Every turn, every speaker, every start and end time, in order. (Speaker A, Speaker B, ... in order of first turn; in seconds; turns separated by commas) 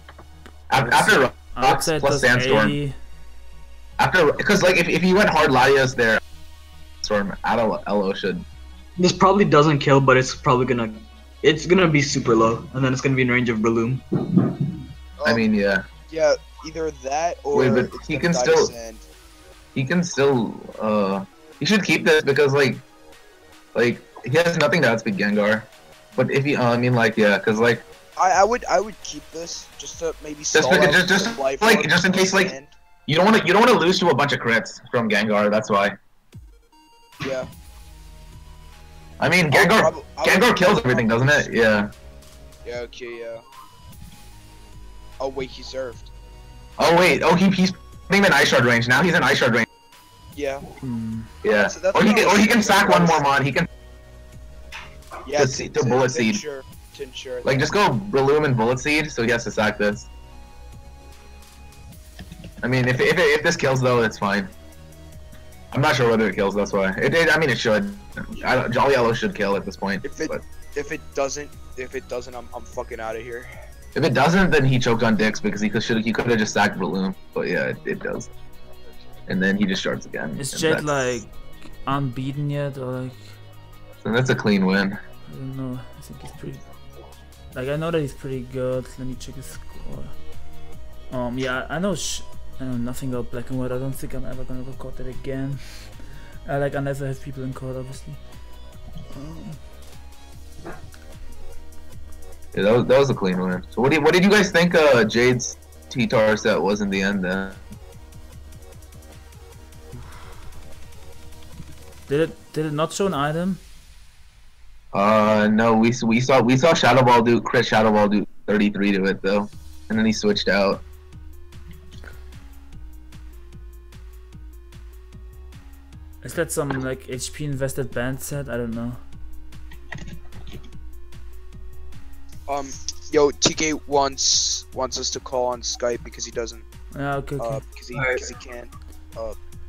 Speaker A: 0.7-2.8, Speaker B: 0.7-3.0, Speaker A: 4.0-6.2, Speaker A: 7.0-8.5, Speaker C: 9.0-14.6, Speaker D: 15.2-15.5, Speaker A: 15.2-15.8, Speaker D: 16.1-19.1, Speaker A: 17.5-18.7, Speaker A: 19.8-22.8, Speaker A: 23.8-27.9, Speaker D: 28.2-32.7, Speaker A: 30.5-32.5, Speaker A: 33.1-36.0, Speaker D: 37.2-37.5, Speaker A: 39.2-41.9, Speaker D: 39.5-41.5, Speaker D: 42.6-43.5, Speaker D: 45.2-46.1, Speaker A: 46.8-49.7, Speaker D: 50.3-50.7, Speaker B: 50.8-51.3, Speaker A: 51.4-53.7, Speaker D: 51.6-53.3, Speaker D: 55.2-57.7, Speaker A: 55.4-56.4, Speaker A: 57.4-60.1, Speaker A: 62.6-64.5, Speaker A: 65.7-70.4, Speaker D: 70.0-73.5, Speaker A: 74.0-78.3, Speaker A: 79.3-81.2, Speaker B: 80.4-83.4, Speaker A: 84.0-85.0, Speaker B: 85.3-86.7, Speaker B: 87.5-90.3, Speaker B: 91.1-98.3, Speaker B: 99.1-99.6, Speaker A: 102.5-107.6, Speaker B: 112.1-113.6, Speaker A: 114.9-120.8, Speaker B: 126.2-129.1, Speaker D: 132.5-136.7, Speaker B: 136.9-137.6, Speaker D: 137.4-139.4, Speaker C: 137.9-138.3